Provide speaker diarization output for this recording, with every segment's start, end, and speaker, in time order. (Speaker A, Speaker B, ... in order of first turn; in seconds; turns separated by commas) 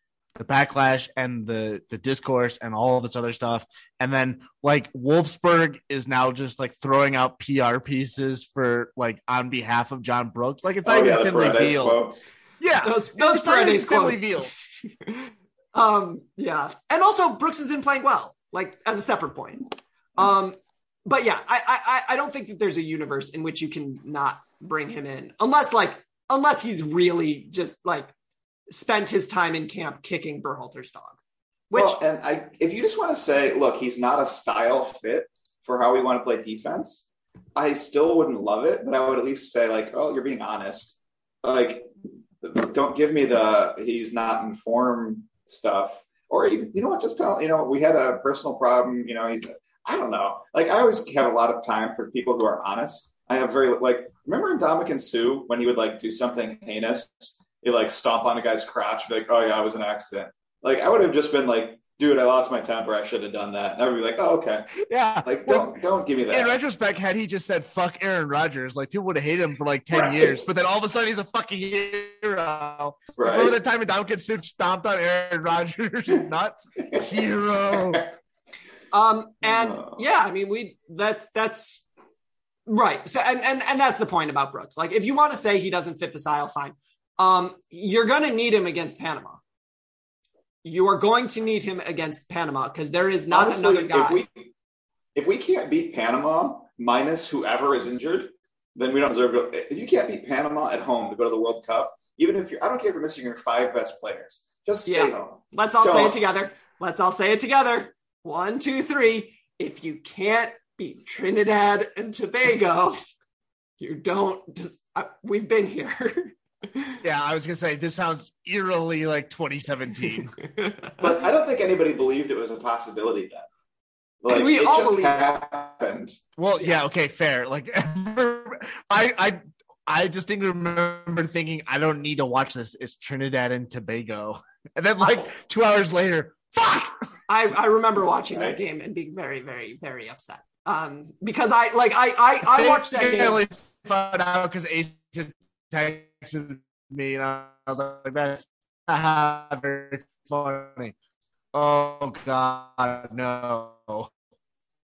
Speaker A: 0.3-12.0, Speaker B: 10.8-12.3, Speaker A: 12.6-14.5, Speaker C: 12.8-14.4, Speaker C: 15.0-28.1, Speaker C: 28.7-31.2, Speaker C: 31.7-32.0, Speaker B: 31.7-41.9, Speaker B: 42.4-66.6, Speaker A: 64.8-65.7, Speaker A: 66.3-78.0, Speaker B: 69.9-70.5, Speaker B: 73.2-73.5, Speaker C: 78.9-81.8, Speaker B: 79.4-80.0, Speaker C: 82.7-89.4, Speaker C: 90.6-94.2, Speaker B: 93.3-94.5, Speaker B: 95.1-106.3, Speaker C: 104.8-113.0, Speaker C: 113.8-117.0, Speaker A: 117.0-120.3, Speaker B: 121.0-123.5, Speaker B: 124.2-126.2, Speaker C: 124.3-125.2, Speaker A: 126.4-136.9, Speaker C: 137.3-143.4, Speaker A: 142.4-150.9, Speaker A: 151.5-154.1